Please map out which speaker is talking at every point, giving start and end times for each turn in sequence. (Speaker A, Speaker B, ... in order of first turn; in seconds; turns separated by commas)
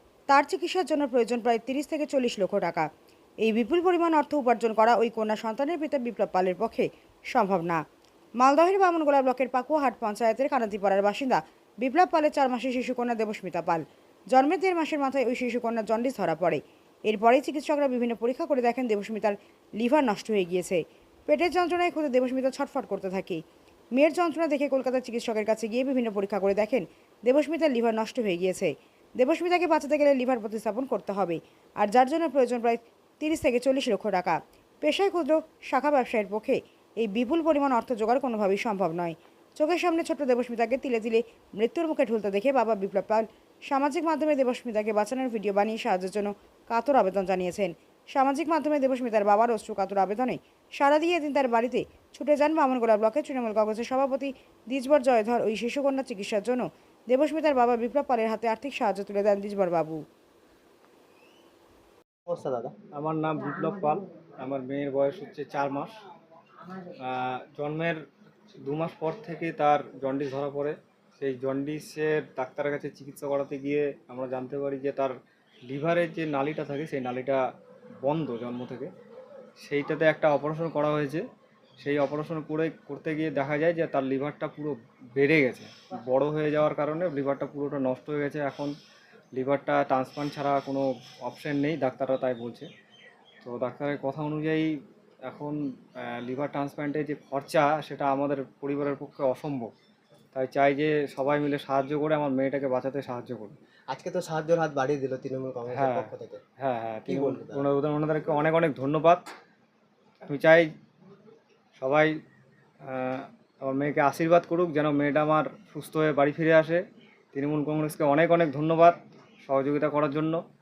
Speaker A: 0.3-2.9, Speaker A: 3.4-7.8, Speaker A: 8.4-23.4, Speaker A: 23.9-60.0, Speaker B: 62.3-62.7, Speaker C: 62.9-66.0, Speaker C: 67.0-68.0, Speaker C: 68.6-77.4, Speaker C: 78.0-78.9, Speaker C: 79.6-81.2, Speaker C: 81.8-88.7, Speaker C: 89.3-92.7, Speaker C: 93.4-94.7, Speaker C: 95.3-99.7, Speaker C: 100.3-103.5, Speaker B: 103.9-106.4, Speaker C: 105.7-109.2, Speaker B: 107.1-107.6, Speaker C: 110.2-110.7, Speaker C: 111.8-112.1, Speaker C: 112.8-120.4